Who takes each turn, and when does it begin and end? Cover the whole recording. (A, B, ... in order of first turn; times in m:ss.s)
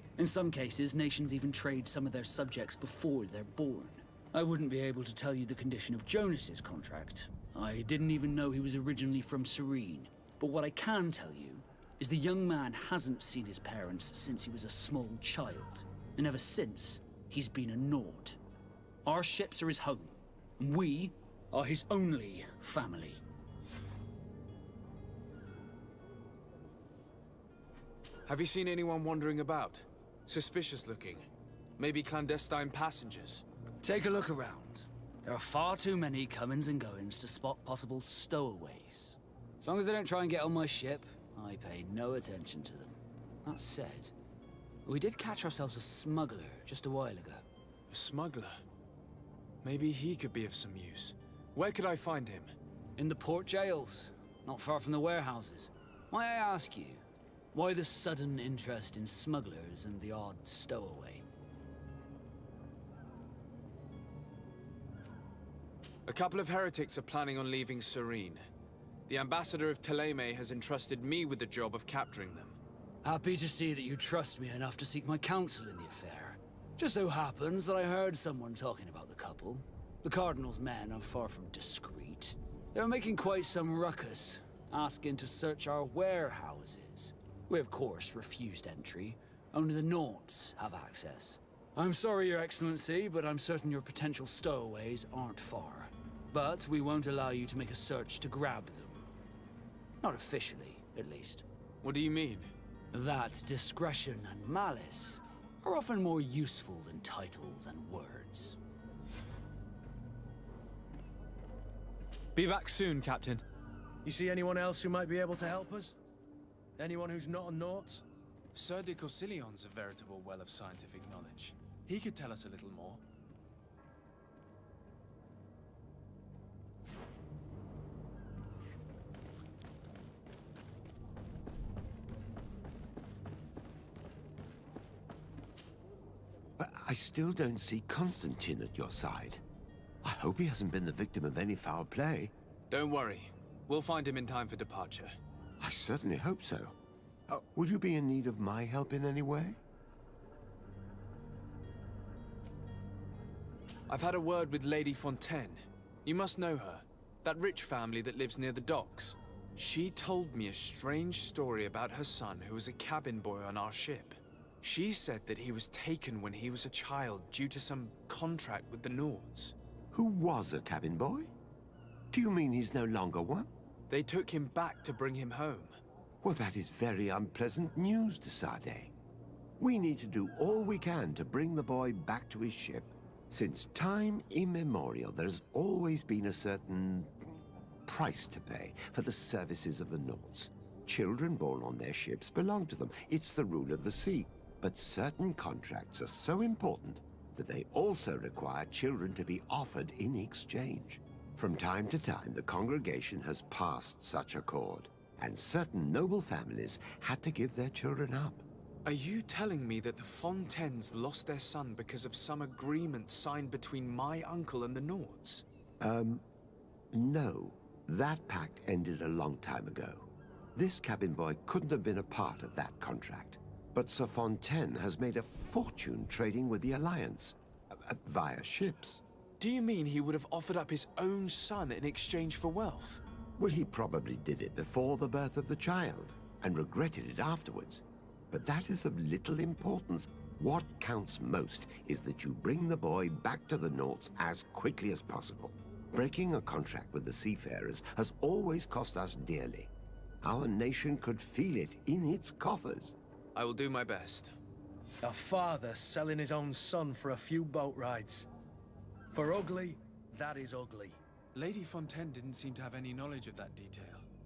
0:00.2-0:18.4 A
0:19.0-0:23.2 A
0:28.3-0:31.3 B
0:31.8-0:33.4 B
0:33.8-0:42.9 A
0:43.4-0:44.1 A
0:44.8-0:47.4 A
0:47.9-0:48.6 B
0:49.6-0:52.5 B
0:53.0-1:01.2 A
1:06.1-1:08.5 B
1:09.1-1:12.6 B
1:13.0-1:39.1 A
1:40.0-1:41.4 A
1:41.8-1:42.5 B
1:42.9-1:48.6 A
1:52.4-1:53.4 B
1:54.0-1:56.0 C
1:56.8-1:58.0 C
1:58.6-2:03.0 B
2:16.6-2:19.4 D
2:20.0-2:22.3 D
2:22.7-2:25.2 B
2:25.6-2:26.8 D
2:27.3-2:29.6 D
2:33.9-2:49.5 B
2:49.9-2:51.3 D
2:52.1-2:53.5 D
2:53.9-2:55.8 B
2:56.2-2:58.9 D
2:59.6-3:07.1 D
3:07.9-3:28.4 D
3:28.8-3:35.4 B
3:35.8-3:36.2 D
3:36.9-3:49.0 D
3:49.4-3:53.0 B
3:53.4-4:09.7 D
4:10.2-4:13.0 D
4:13.4-4:14.4 B
4:15.0-4:18.3 C
4:19.1-4:21.0 C
4:21.4-4:24.1 B